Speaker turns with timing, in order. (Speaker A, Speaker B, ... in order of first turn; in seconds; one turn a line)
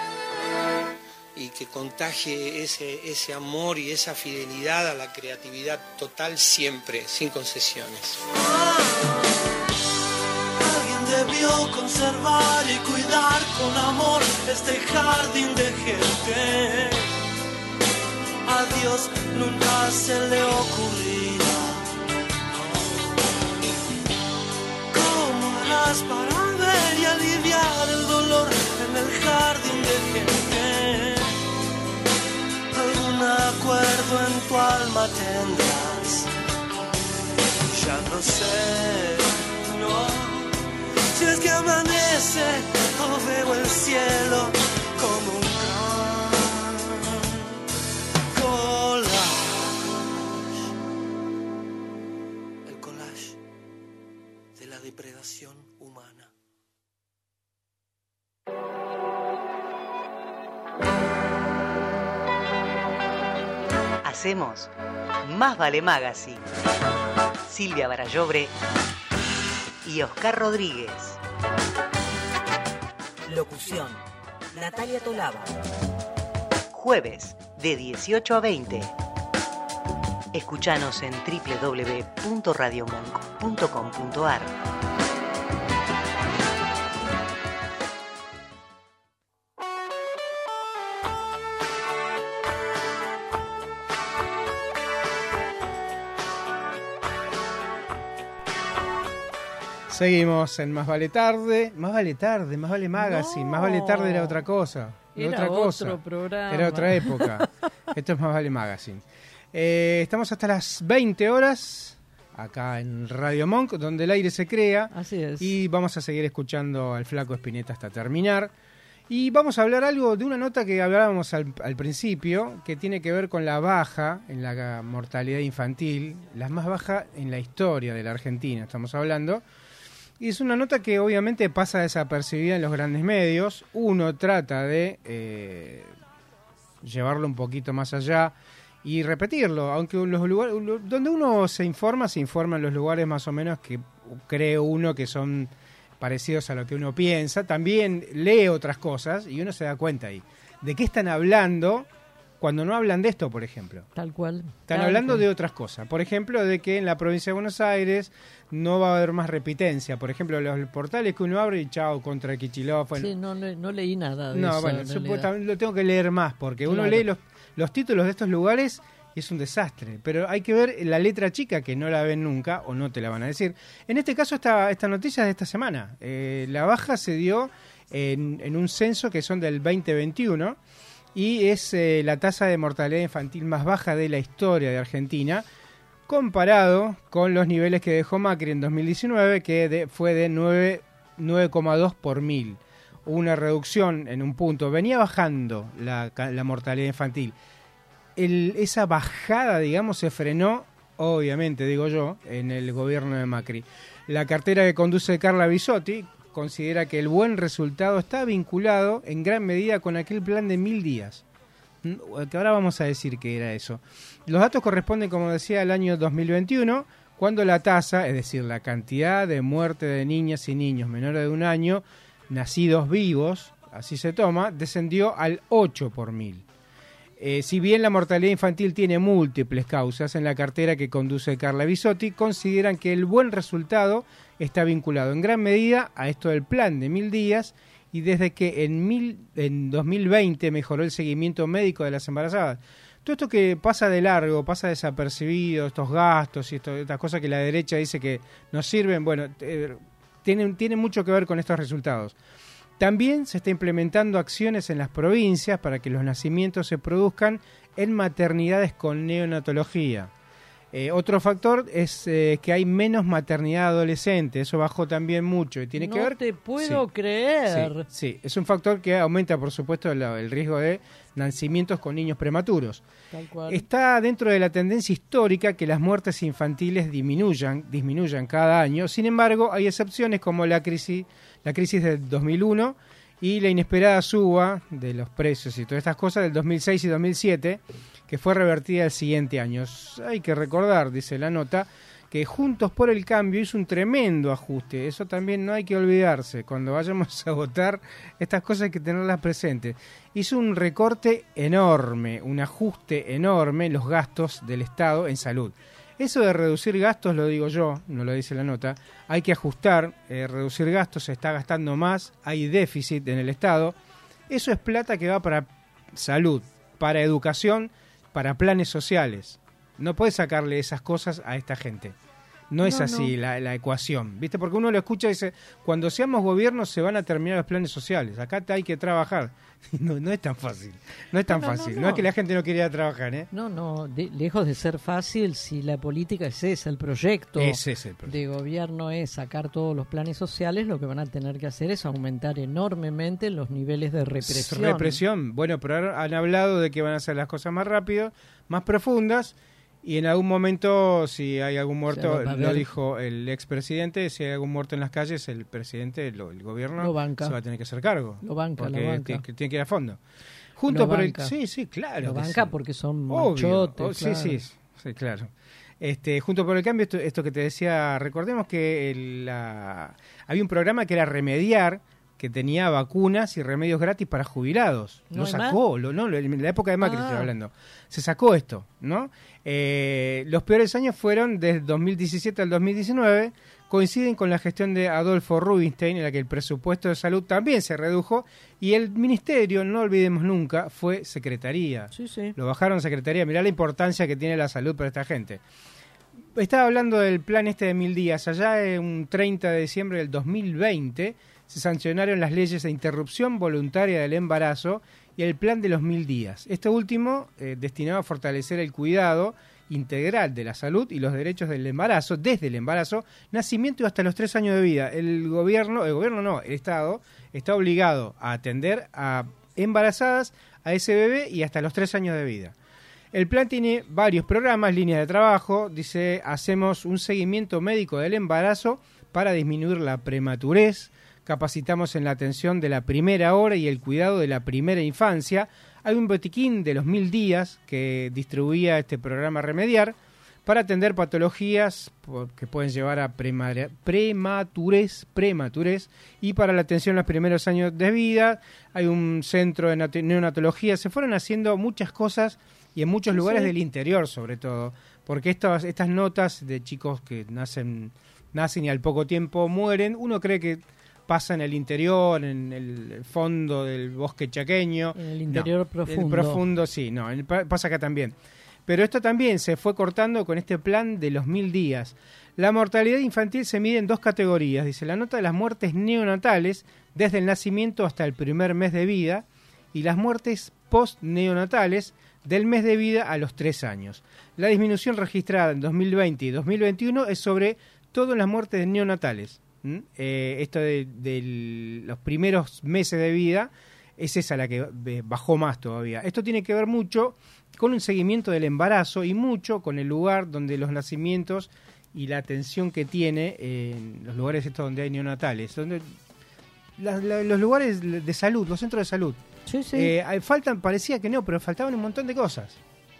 Speaker A: 1.4-8.2
Speaker B: 8.4-9.1
Speaker B: 10.6-17.1
Speaker B: 18.5-21.8
Speaker B: 22.5-23.3
Speaker B: 24.9-31.4
Speaker B: 32.7-36.3
Speaker B: 37.7-40.6
Speaker B: 41.1-47.3
Speaker B: 48.3-50.1
Speaker B: 52.6-53.4
Speaker B: 54.6-56.3
Speaker C: 64.0-64.7
Speaker C: 65.2-66.5
Speaker C: 67.5-68.5
Speaker C: 69.8-71.2
Speaker C: 73.3-74.0
Speaker C: 74.5-75.5
Speaker C: 76.7-78.9
Speaker C: 80.3-84.5
Speaker D: 99.9-118.5
Speaker E: 103.0-104.4
Speaker E: 105.2-107.5
Speaker E: 114.9-115.5
Speaker D: 119.1-129.4
Speaker D: 130.2-135.9
Speaker D: 136.8-151.9
Speaker D: 152.4-153.9
Speaker E: 154.0-155.3
Speaker D: 154.7-163.1
Speaker E: 163.0-165.3
Speaker D: 164.3-180.6
Speaker E: 166.7-167.1
Speaker D: 181.2-185.4
Speaker D: 186.1-197.3
Speaker D: 198.2-211.2
Speaker D: 211.8-226.4
Speaker D: 227.2-252.2
Speaker D: 252.8-260.1
Speaker D: 260.7-266.8
Speaker E: 265.8-267.9
Speaker D: 267.5-272.8
Speaker E: 273.1-273.6
Speaker D: 273.5-313.8
Speaker D: 314.3-322.0
Speaker D: 322.5-333.3
Speaker E: 322.6-323.1
Speaker E: 331.3-332.1
Speaker E: 333.3-345.0
Speaker D: 337.4-338.1
Speaker D: 344.2-360.0
Speaker E: 351.9-352.7
Speaker E: 356.8-357.4
Speaker E: 358.2-359.2
Speaker D: 360.6-362.5
Speaker E: 360.7-361.3
Speaker E: 362.0-364.4
Speaker D: 363.1-365.3
Speaker D: 365.8-395.4
Speaker E: 375.1-375.6
Speaker E: 376.8-377.3
Speaker E: 391.9-392.4
Speaker D: 396.4-422.6
Speaker D: 423.1-468.1
Speaker E: 453.1-453.5
Speaker E: 464.9-466.4
Speaker D: 468.7-505.9
Speaker D: 506.8-509.2
Speaker E: 509.5-509.9
Speaker D: 509.7-512.6